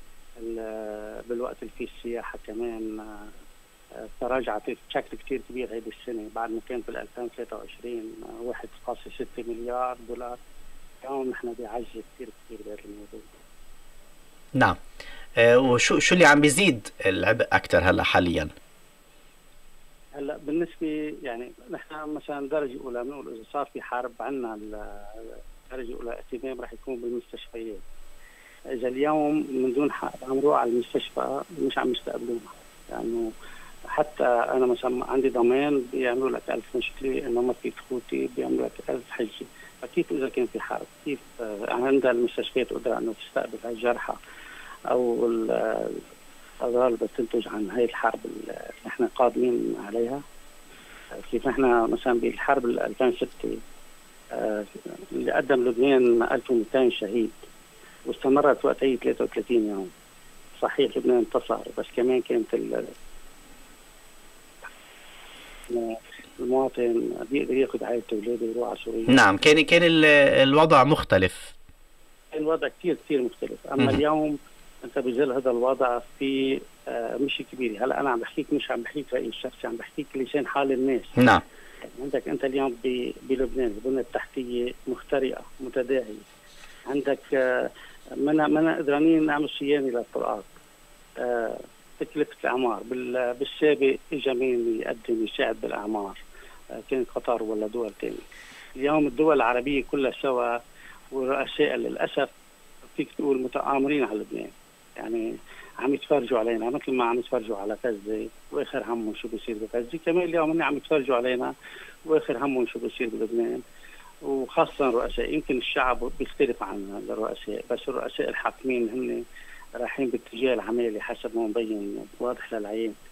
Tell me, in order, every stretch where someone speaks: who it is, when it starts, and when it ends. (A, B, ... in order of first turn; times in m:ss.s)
0:00.4-0:03.3 A
0:04.0-0:10.4 A
0:11.0-0:13.3 A
0:15.4-0:18.5 B
0:20.1-0:27.8 A
0:28.8-0:33.3 A
0:33.9-0:44.2 A
0:44.9-0:46.0 A
0:46.6-0:50.2 A
0:51.1-0:53.6 A
0:54.3-0:57.4 A
0:58.1-0:59.9 A
1:00.6-1:02.9 A
1:05.7-1:09.2 A
1:09.1-1:11.5 B
1:12.3-1:21.1 A
1:21.2-1:21.4 B
1:21.9-1:26.2 A
1:26.9-1:27.7 A
1:28.2-1:30.5 A
1:31.2-1:36.2 A
1:36.9-1:38.2 A
1:38.8-1:40.5 A
1:41.1-1:42.3 A
1:42.9-1:45.3 A
1:45.8-1:51.5 A
1:52.1-1:53.6 A
1:54.2-1:59.2 A
1:59.8-2:02.9 A